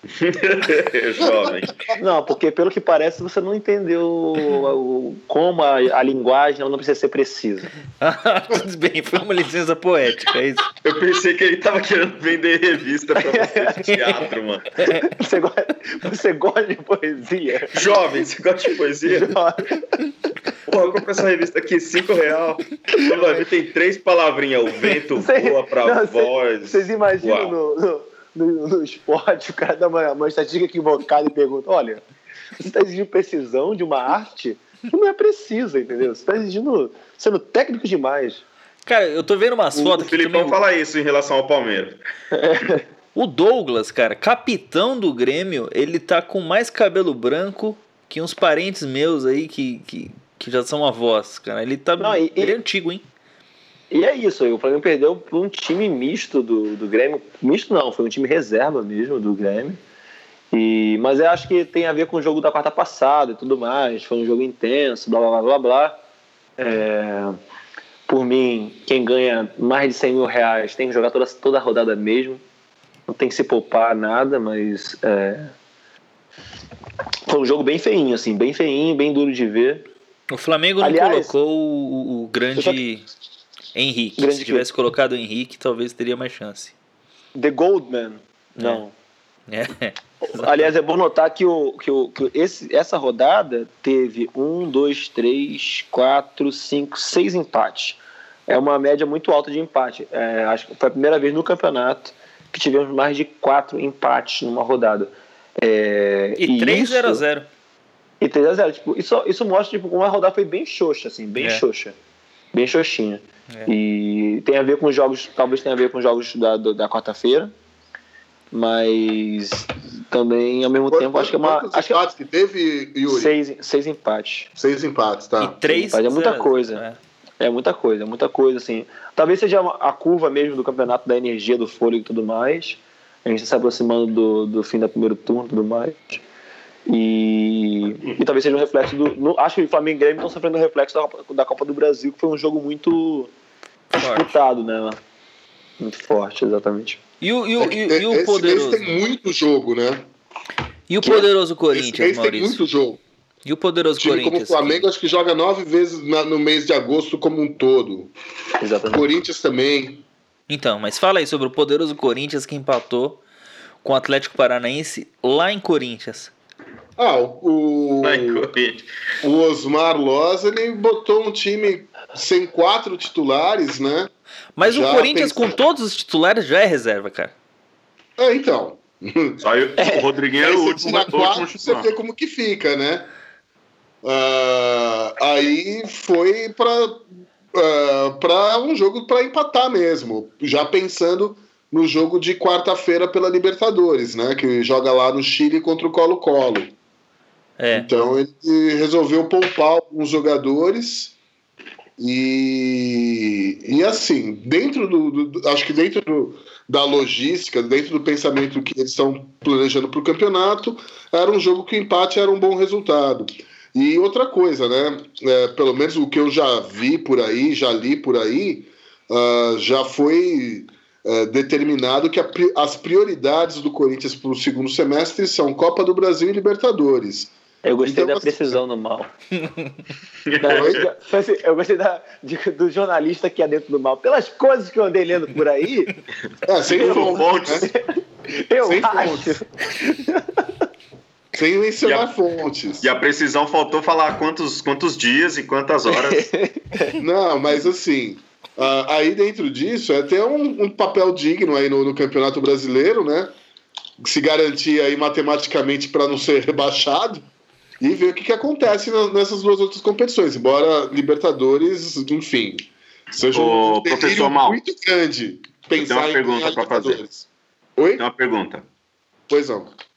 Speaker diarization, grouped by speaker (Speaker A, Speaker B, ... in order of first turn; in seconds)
Speaker A: 0.1-1.9, 10.8-14.9, 17.7-19.4, 20.6-27.5, 39.7-42.0, 168.0-168.9, 179.4-181.9, 230.2-230.8, 236.7-237.7, 241.8-242.1, 242.8-246.3, 263.3-264.6, 265.8-267.0, 268.0-268.6
Speaker B: 1.9-7.7, 13.2-13.9, 14.8-17.9, 19.1-19.9, 22.9-23.4, 25.1-32.0, 32.6-38.4, 42.3-42.8, 52.0-52.6, 53.9-59.8, 60.5-66.0, 66.6-67.4, 68.1-72.4, 73.1-75.5, 77.3-79.8, 80.8-81.3, 82.5-82.8, 84.2-84.7, 87.3-88.9, 90.2-107.2, 108.2-111.9, 112.5-117.5, 118.5-122.0, 123.1-124.5, 125.7-126.8, 127.4-136.2, 136.9-143.3, 144.0-145.0, 145.8-147.0, 158.6-159.1, 179.8-180.1, 227.6-229.1, 230.4-235.9, 236.7-240.5, 245.9-247.0
Speaker C: 8.0-10.7, 13.9-14.2, 14.8-15.1, 38.9-40.6, 43.1-53.0, 80.3-83.1, 83.8-86.7, 88.6-88.8, 89.5-90.7, 106.4-107.5, 125.4-127.0, 143.9-144.4, 147.2-148.9, 150.9-152.6, 153.4-154.9, 160.5-163.2, 163.8-166.3, 174.6-177.3, 197.6-197.9
Speaker D: 120.9-123.3, 124.6-125.7, 147.6-150.0, 151.0-153.0, 154.0-158.1, 158.8-160.0, 167.0-168.5, 169.2-174.1, 174.6-175.5, 178.2-179.4, 180.4-183.1, 184.0-196.7, 197.7-201.1, 202.0-227.3, 227.8-228.6, 230.4-230.9, 236.5-237.7, 238.6-239.4, 241.3-242.9, 247.0-253.3, 254.0-257.2, 257.8-267.2, 267.8-268.0, 269.3-269.7